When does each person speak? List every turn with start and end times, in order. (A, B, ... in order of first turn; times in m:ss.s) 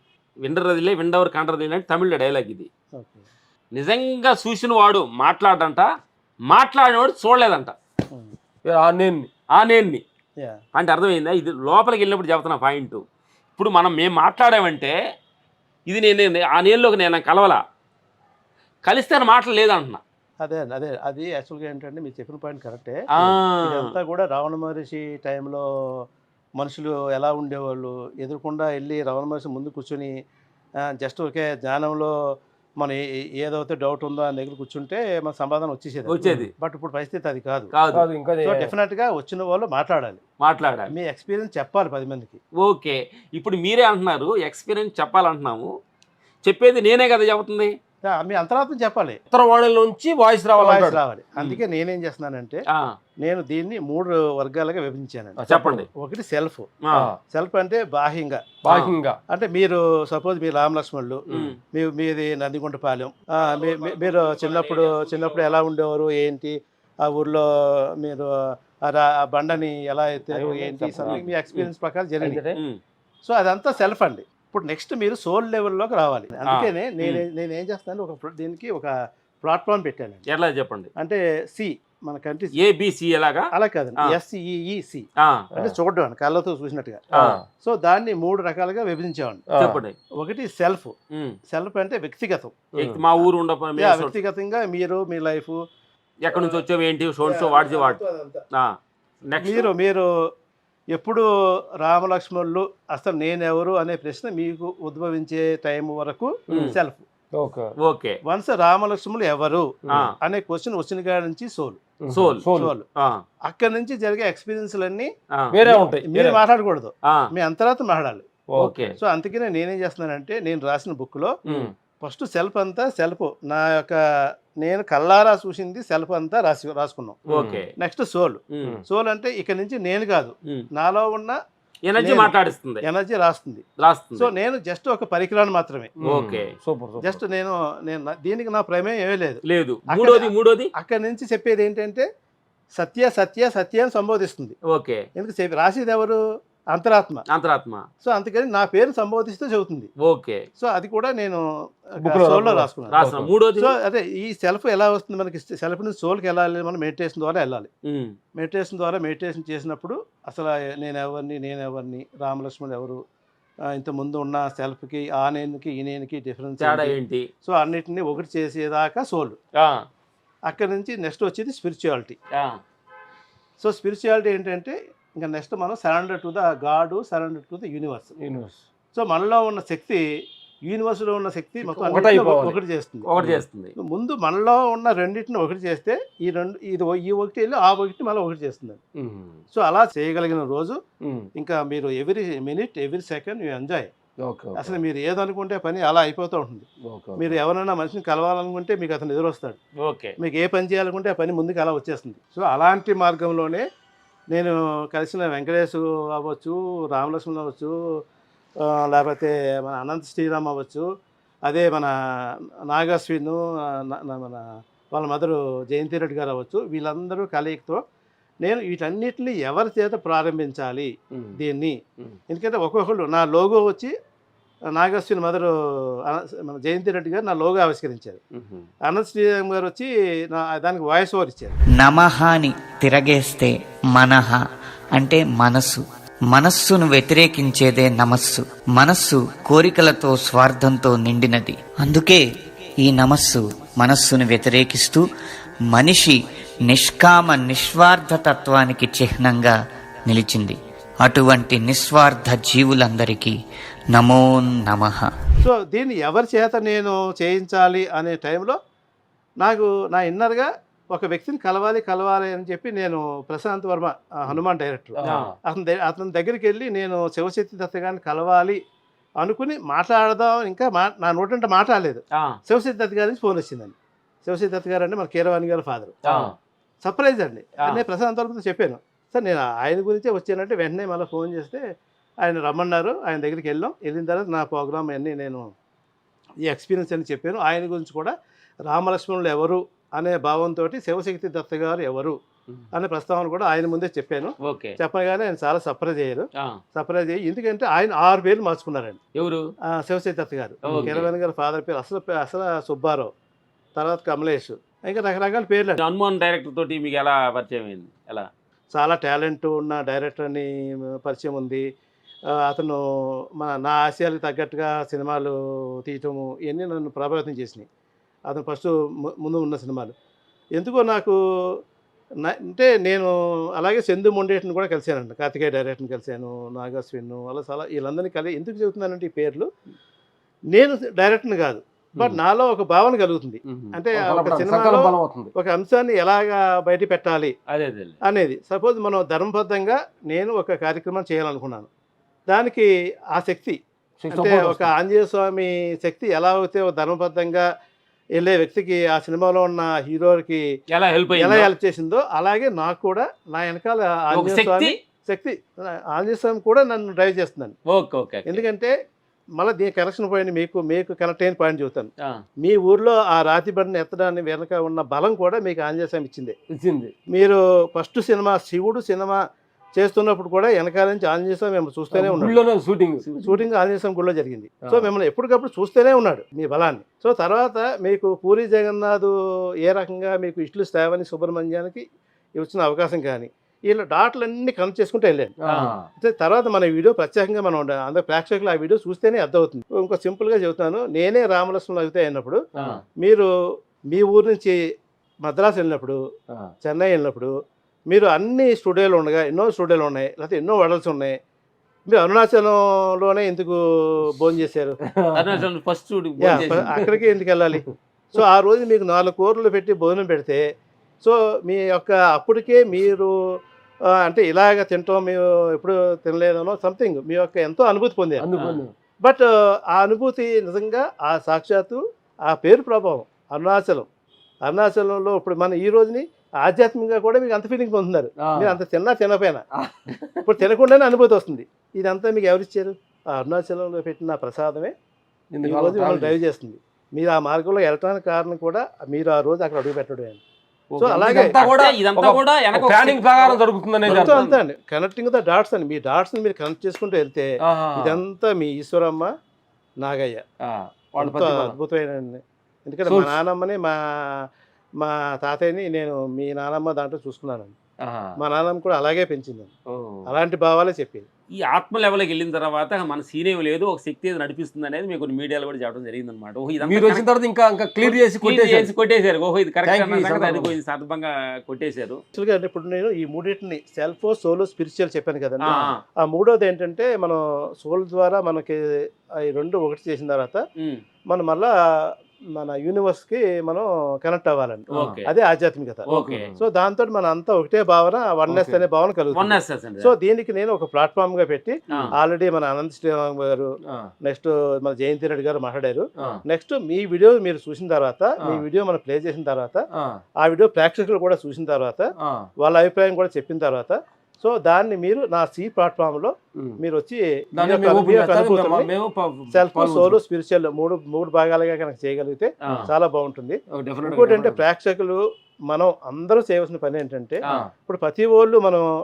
0:00.4-0:02.7 A
0:03.0-0:03.3 B
0:03.7-0:05.9 A
0:06.5-0:07.7 A
0:08.6-0:09.3 C
0:09.5-0:10.0 A
0:10.7-0:13.0 A
0:13.6-0:14.9 A
0:15.9-0:17.6 A
0:18.8-0:20.0 A
0:20.4-0:25.6 B
0:23.2-0:23.9 A
0:26.6-0:30.1 B
0:30.9-0:32.1 B
0:32.8-0:37.7 B
0:36.1-0:36.5 A
0:37.7-0:38.0 A
0:37.9-0:38.7 C
0:38.4-0:40.2 B
0:40.4-0:40.9 A
0:40.9-0:42.4 B
0:42.6-0:45.7 A
0:46.4-0:47.7 A
0:48.0-0:49.2 B
0:49.3-0:51.0 C
0:50.6-0:52.6 B
0:53.2-0:56.7 B
0:55.4-0:55.8 C
0:55.5-0:55.8 A
0:57.3-0:58.5 B
0:58.6-0:59.2 C
0:58.7-0:58.9 A
0:59.3-1:07.4 B
1:03.4-1:05.5 A
1:08.0-1:08.3 B
1:08.8-1:12.4 B
1:10.3-1:11.3 C
1:12.2-1:12.5 C
1:12.5-1:12.8 A
1:13.2-1:20.2 B
1:16.5-1:17.2 A
1:20.3-1:20.9 A
1:21.0-1:22.5 B
1:22.6-1:23.5 A
1:23.5-1:27.1 B
1:27.2-1:27.4 C
1:27.6-1:29.4 B
1:29.5-1:29.8 C
1:29.6-1:29.9 A
1:30.2-1:30.9 B
1:31.5-1:32.6 B
1:32.7-1:33.0 C
1:32.8-1:34.1 A
1:33.8-1:35.6 B
1:36.2-1:38.0 A
1:36.3-1:36.6 B
1:37.2-1:38.4 B
1:39.3-1:39.7 A
1:39.4-1:40.0 B
1:40.9-1:41.2 B
1:41.8-1:47.0 B
1:46.5-1:46.7 C
1:46.5-1:46.8 A
1:47.3-1:47.7 C
1:47.8-1:48.2 A
1:48.2-1:51.8 B
1:52.0-1:52.7 C
1:52.1-1:52.4 A
1:52.6-1:52.8 B
1:53.5-1:55.1 B
1:55.5-1:56.4 C
1:55.6-1:58.2 B
1:58.5-1:58.7 C
1:58.6-1:59.0 A
1:59.0-2:01.3 B
2:02.0-2:04.0 B
2:04.6-2:07.2 B
2:07.3-2:07.6 C
2:07.3-2:07.7 A
2:07.8-2:11.4 B
2:08.5-2:08.8 A
2:11.9-2:12.8 A
2:12.0-2:13.6 B
2:13.8-2:14.3 A
2:14.2-2:15.9 B
2:16.0-2:17.2 C
2:16.0-2:16.5 A
2:17.0-2:22.0 B
2:19.4-2:20.7 A
2:22.8-2:24.5 B
2:24.7-2:25.0 A
2:25.2-2:26.2 B
2:26.7-2:27.2 B
2:27.3-2:27.8 A
2:28.0-2:29.9 B
2:30.0-2:30.4 A
2:30.6-2:31.4 B
2:32.0-2:33.0 B
2:32.0-2:33.3 C
2:32.9-2:33.7 A
2:33.6-2:37.7 B
2:37.9-2:38.1 A
2:38.4-2:43.0 B
2:43.7-2:49.4 B
2:46.6-2:47.3 A
2:50.4-2:52.2 B
2:52.3-2:52.6 A
2:53.6-2:58.1 B
2:58.2-2:58.6 C
2:58.9-3:00.0 B
3:00.6-3:03.1 B
3:01.6-3:02.6 C
3:03.1-3:03.7 A
3:03.8-3:08.8 B
3:09.0-3:09.4 C
3:09.5-3:10.8 B
3:11.4-3:13.9 B
3:14.2-3:14.8 C
3:14.6-3:16.6 B
3:16.8-3:17.4 C
3:17.2-3:19.6 B
3:19.8-3:20.1 A
3:20.2-3:23.6 B
3:24.3-3:27.7 B
3:28.6-3:30.8 B
3:31.4-3:31.9 B
3:32.7-3:37.8 B
3:38.4-3:41.8 B
3:42.3-3:43.9 B
3:44.7-3:45.5 B
3:46.0-3:48.2 B
3:48.3-3:48.7 C
3:48.8-3:51.6 B
3:51.7-3:54.4 D
3:54.9-4:02.2 D
4:02.8-4:05.1 D
4:05.7-4:06.2 D
4:06.7-4:09.6 D
4:10.1-4:13.3 D
4:13.9-4:15.0 D
4:15.4-4:18.6 B
4:19.4-4:28.6 B
4:25.0-4:25.3 C
4:25.1-4:25.3 A
4:29.2-4:36.0 B
4:36.0-4:36.3 A
4:36.1-4:36.3 C
4:36.8-4:41.6 B
4:42.2-4:45.4 B
4:46.4-4:48.1 B
4:48.7-4:52.2 B
4:52.7-4:59.0 B
4:54.4-4:54.8 A
4:59.2-4:59.4 A
4:59.7-5:03.1 B
5:00.6-5:01.0 C
5:00.7-5:01.1 A
5:03.8-5:05.8 B
5:05.8-5:08.3 A
5:08.7-5:11.6 B
5:12.4-5:12.8 B
5:13.4-5:17.6 B
5:18.3-5:19.9 B
5:20.6-5:21.6 B
5:22.2-5:29.5 B
5:30.5-5:37.3 B
5:33.5-5:35.3 C
5:37.5-5:38.0 A
5:38.0-5:41.7 B
5:42.3-5:43.6 B
5:44.0-5:44.7 C
5:44.1-5:47.4 B
5:48.2-5:50.4 B
5:50.7-5:51.5 A
5:51.2-5:57.5 B
5:54.1-5:54.7 A
5:57.7-5:58.4 A
5:58.3-5:58.7 B
5:59.4-6:01.9 B
6:02.4-6:06.3 B
6:06.6-6:06.9 C
6:07.1-6:09.2 B
6:09.8-6:12.4 B
6:11.9-6:13.4 C
6:13.2-6:21.8 B
6:14.6-6:14.9 C
6:22.4-6:25.3 B
6:25.4-6:25.9 C
6:25.5-6:25.7 A
6:26.0-6:32.4 B
6:32.6-6:32.8 C
6:33.0-6:33.3 B
6:33.9-6:34.6 B
6:35.2-6:36.0 B
6:36.6-6:37.3 B
6:37.9-6:41.1 B
6:41.9-6:44.8 B
6:44.8-6:45.4 C
6:45.1-6:46.8 A
6:46.2-6:50.4 B
6:46.3-6:47.0 C
6:51.0-6:53.1 B
6:53.9-6:58.3 B
6:58.2-6:58.7 C
6:58.4-6:58.6 A
6:59.0-7:03.9 B
7:04.4-7:09.4 B
7:08.2-7:08.5 C
7:09.6-7:10.3 C
7:10.2-7:14.7 B
7:15.3-7:16.1 C
7:15.4-7:20.2 B
7:20.7-7:24.2 C
7:20.8-7:21.3 B
7:21.2-7:24.3 A
7:23.9-7:29.1 B
7:27.4-7:28.0 C
7:29.8-7:30.2 B
7:30.4-7:31.6 C
7:31.0-7:34.2 B
7:32.9-7:33.2 C
7:34.8-7:37.5 B
7:37.8-7:38.1 C
7:38.2-7:39.5 B
7:39.7-7:40.0 C
7:40.0-7:41.0 B
7:41.4-7:47.1 A
7:46.6-7:48.7 C
7:47.8-7:52.0 A
7:49.6-7:50.5 C
7:52.1-7:58.6 B
7:55.5-7:55.8 A
7:59.2-8:00.4 B
8:00.6-8:00.8 A
8:01.1-8:01.5 B
8:02.3-8:13.5 B
8:04.7-8:05.1 A
8:05.9-8:06.3 A
8:05.9-8:06.4 C
8:08.3-8:08.6 C
8:09.1-8:09.9 A
8:14.0-8:19.6 B
8:19.7-8:20.0 C
8:20.2-8:21.8 B
8:22.0-8:22.3 C
8:22.4-8:28.7 B
8:27.4-8:30.0 C
8:29.3-8:38.7 B
8:33.5-8:34.4 C